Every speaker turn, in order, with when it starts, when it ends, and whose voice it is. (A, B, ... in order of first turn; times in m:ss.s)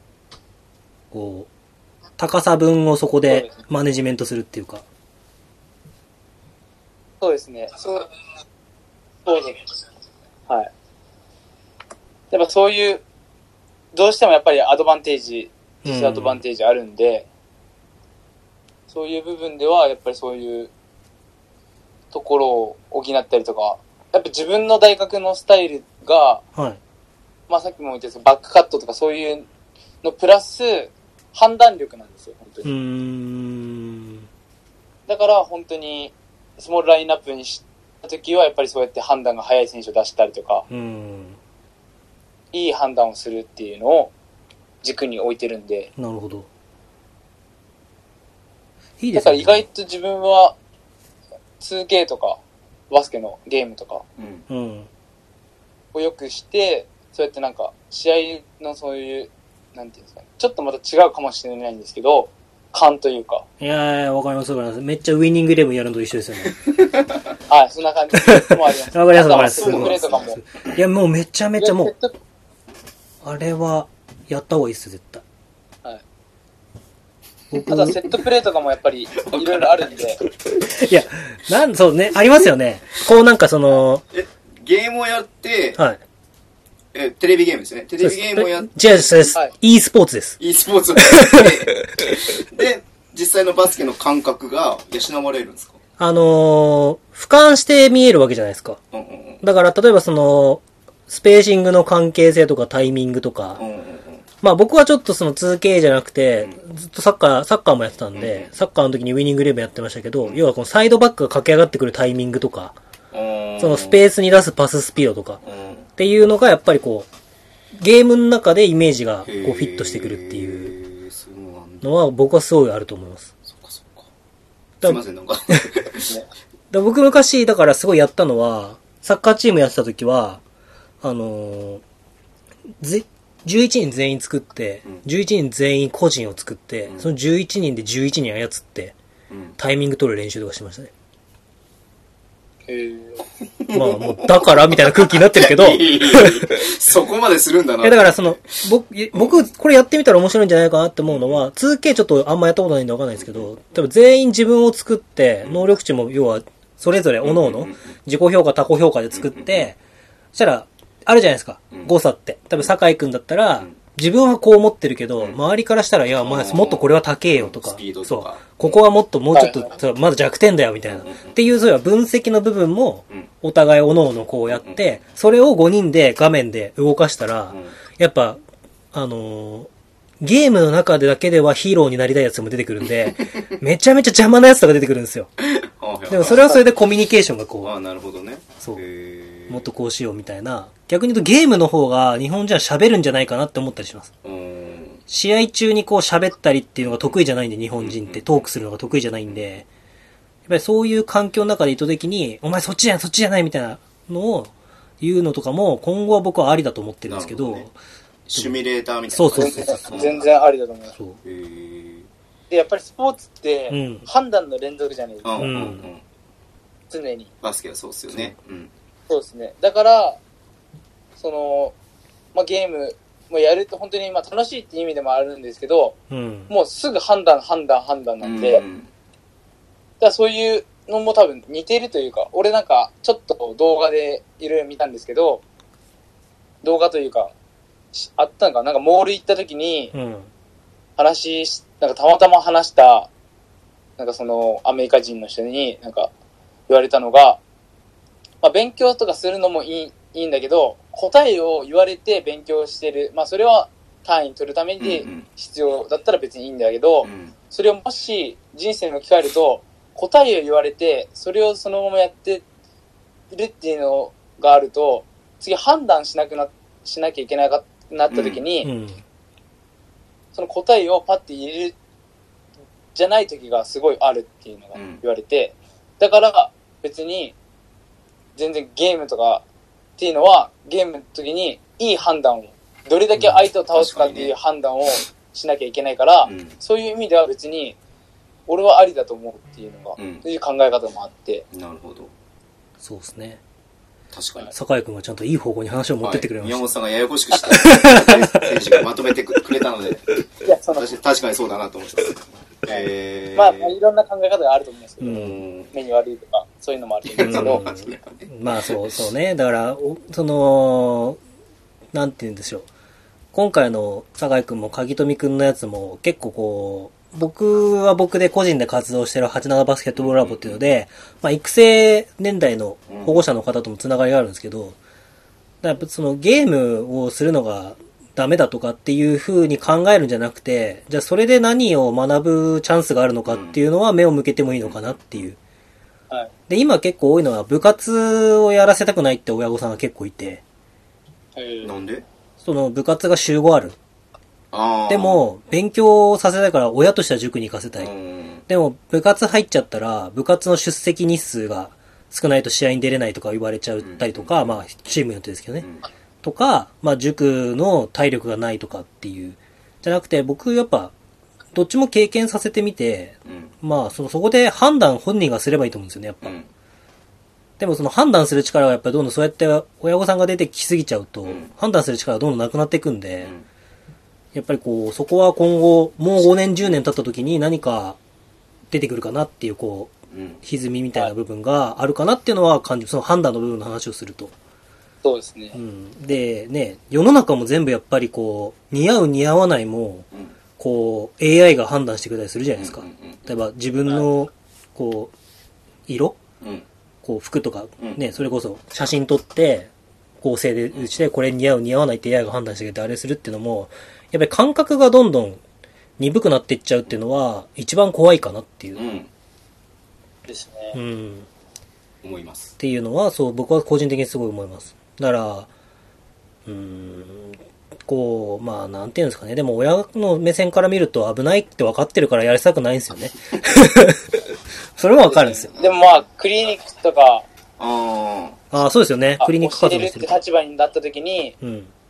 0:01.1-0:01.5 A
0:02.2-0:04.8 A
0:03.3-0:03.6 B
0:07.2-0:08.1 B
0:09.3-0:09.7 B
0:12.3-0:13.0 B
0:13.9-0:17.3 B
0:15.8-0:16.4 A
0:18.9-0:20.7 B
0:22.1-0:26.4 B
0:27.5-0:29.5 B
0:30.0-0:32.7 B
0:32.6-0:34.3 A
0:35.1-0:40.6 B
0:40.7-0:41.4 A
0:42.5-0:44.1 B
0:44.8-0:45.9 B
0:46.0-0:46.5 A
0:49.0-0:49.7 A
0:49.2-0:50.6 B
0:51.6-0:54.0 B
0:54.2-0:54.5 C
0:54.5-0:54.9 A
0:55.9-1:03.4 B
1:03.6-1:06.6 A
1:06.6-1:07.2 C
1:07.5-1:10.4 B
1:08.3-1:11.9 A
1:09.3-1:10.8 C
1:11.6-1:12.1 B
1:13.2-1:15.2 A
1:17.5-1:18.0 A
1:17.7-1:20.2 B
1:19.2-1:20.0 C
1:20.7-1:24.0 A
1:24.1-1:25.8 C
1:26.9-1:29.4 C
1:28.0-1:30.4 A
1:30.4-1:35.8 C
1:31.0-1:31.7 A
1:36.0-1:38.8 A
1:38.9-1:39.4 C
1:39.4-1:43.6 A
1:43.6-1:44.2 C
1:44.4-1:52.8 A
1:48.1-1:48.5 C
1:53.1-1:54.0 C
1:53.6-1:55.4 A
1:55.4-1:55.9 C
1:56.0-1:57.1 A
1:57.7-2:00.8 A
1:59.2-2:01.9 C
2:01.8-2:03.3 A
2:03.5-2:04.1 C
2:04.8-2:05.6 A
2:04.8-2:06.1 C
2:06.7-2:10.4 A
2:11.0-2:11.8 A
2:12.8-2:19.0 A
2:16.9-2:17.1 C
2:19.3-2:19.6 C
2:19.6-2:20.9 A
2:22.7-2:23.2 B
2:23.6-2:28.6 C
2:23.7-2:26.5 A
2:27.8-2:39.8 A
2:29.1-2:29.4 C
2:31.1-2:31.4 C
2:33.2-2:33.5 C
2:37.2-2:37.8 C
2:39.1-2:39.7 C
2:40.3-2:58.4 A
2:46.2-2:48.8 C
2:49.3-2:49.7 B
2:50.9-2:51.4 C
2:54.5-2:55.0 C
2:57.5-2:57.8 C
2:58.9-3:05.3 A
3:05.4-3:06.6 C
3:06.1-3:07.7 A
3:07.6-3:09.7 C
3:09.5-3:14.1 A
3:14.2-3:15.0 C
3:15.1-3:19.7 A
3:16.8-3:17.1 C
3:17.8-3:18.3 C
3:20.5-3:27.8 A
3:27.1-3:27.7 C
3:28.3-3:30.2 C
3:28.4-3:28.6 A
3:29.1-3:30.0 A
3:29.4-3:31.0 B
3:31.2-3:32.1 C
3:32.5-3:35.5 B
3:33.7-3:34.1 A
3:35.2-3:36.0 C
3:35.4-3:35.9 A
3:36.9-3:37.3 B
3:37.4-3:38.7 C
3:38.1-3:38.4 A
3:39.1-3:40.2 B
3:41.2-3:41.7 B
3:42.3-3:46.0 B
3:46.1-3:46.5 A
3:46.5-3:48.6 B
3:48.2-3:48.9 C
3:50.0-3:55.4 B
3:56.6-3:57.3 B
3:57.9-3:59.9 B
3:59.9-4:00.3 A
4:01.0-4:03.1 B
4:04.0-4:06.1 B
4:06.7-4:07.4 B
4:08.4-4:22.4 B
4:14.8-4:15.3 C
4:17.0-4:17.4 C
4:23.3-4:28.7 B
4:28.1-4:28.4 C
4:28.6-4:29.0 A
4:30.4-4:31.8 B
4:33.0-4:37.4 B
4:34.8-4:35.0 C
4:38.4-4:39.4 B
4:40.0-4:47.8 B
4:43.2-4:43.4 A
4:43.7-4:44.3 C
4:46.2-4:46.6 C
4:48.5-4:51.4 B
4:50.0-4:50.2 C
4:51.5-4:52.1 C
4:52.8-4:53.4 A
4:54.1-4:54.5 C
4:54.5-4:56.6 A
4:56.0-5:00.2 C
4:57.3-4:58.8 A
5:00.4-5:00.9 B
5:00.8-5:03.7 C
5:03.4-5:05.2 B
5:05.0-5:05.4 A
5:05.1-5:05.7 C
5:05.7-5:07.6 B
5:07.1-5:09.0 C
5:07.2-5:11.2 A
5:11.9-5:12.7 A
5:13.3-5:24.8 A
5:20.0-5:20.6 C
5:22.9-5:23.2 C
5:25.6-5:35.4 A
5:33.3-5:33.6 C
5:34.6-5:35.2 C
5:36.5-5:40.4 A
5:41.4-5:41.7 B
5:41.6-5:42.0 C
5:42.4-5:43.8 A
5:44.5-5:45.2 C
5:44.9-5:47.9 A
5:47.8-5:48.4 C
5:48.5-5:55.7 A
5:53.8-5:54.7 C
5:55.6-5:55.9 C
5:56.2-6:00.9 A
6:01.5-6:06.4 A
6:03.3-6:03.5 C
6:06.2-6:06.5 C
6:07.6-6:13.3 A
6:11.2-6:11.5 C
6:13.2-6:13.4 C
6:14.3-6:18.0 A
6:18.7-6:24.3 A
6:20.1-6:20.4 C
6:25.0-6:25.6 B
6:25.5-6:30.1 A
6:30.6-6:35.1 A
6:32.6-6:33.3 C
6:35.9-6:36.2 A
6:36.4-6:36.7 C
6:37.0-6:39.7 A
6:37.8-6:38.1 C
6:40.2-6:45.4 A
6:40.7-6:41.0 C
6:46.0-6:48.8 A
6:48.8-6:49.1 C
6:50.3-6:50.8 B
6:50.7-6:51.3 A
6:52.0-6:52.6 C
6:52.6-6:55.5 A
6:56.5-7:04.2 A
7:04.8-7:05.5 A
7:05.1-7:07.3 B
7:05.5-7:05.8 C
7:07.6-7:08.4 C
7:08.5-7:10.2 A
7:09.2-7:11.4 B
7:11.4-7:11.7 A